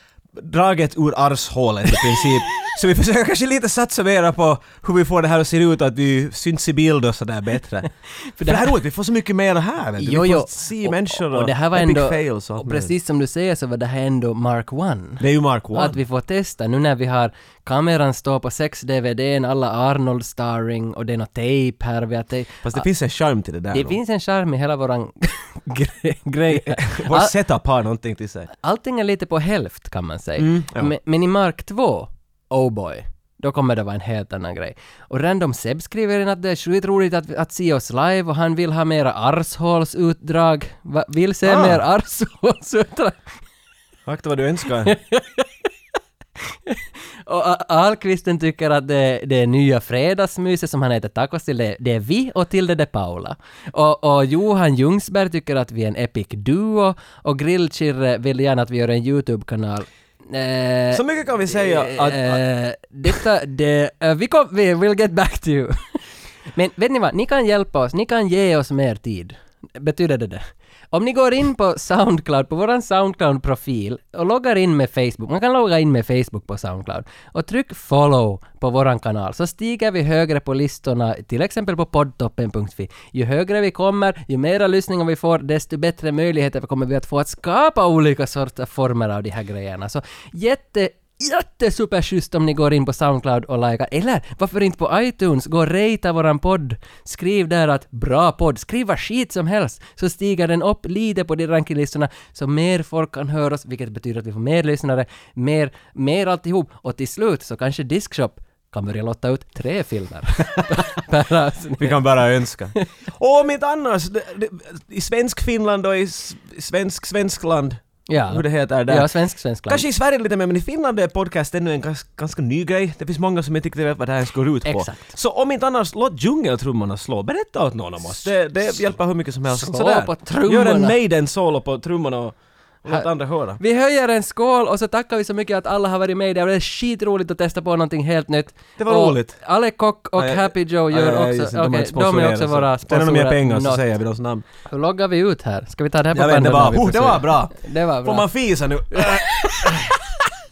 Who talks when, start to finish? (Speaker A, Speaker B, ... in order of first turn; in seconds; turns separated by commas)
Speaker A: 0.3-7.9, Speaker B: 8.2-8.7, Speaker A: 8.4-12.9, Speaker B: 10.0-22.9, Speaker A: 15.2-16.0, Speaker A: 22.6-24.0, Speaker B: 23.7-27.4, Speaker A: 26.5-28.5, Speaker B: 28.5-43.4, Speaker A: 30.4-30.9, Speaker A: 41.4-41.9, Speaker A: 44.1-45.0, Speaker B: 44.9-45.5, Speaker B: 46.7-112.0, Speaker A: 60.9-62.4, Speaker A: 111.8-119.1, Speaker B: 118.1-119.8, Speaker A: 119.7-133.6, Speaker B: 124.7-125.1, Speaker B: 129.5-131.0, Speaker B: 133.6-143.9, Speaker A: 138.8-139.4, Speaker A: 140.2-144.4, Speaker B: 144.7-148.3, Speaker A: 146.1-150.0, Speaker B: 148.9-149.9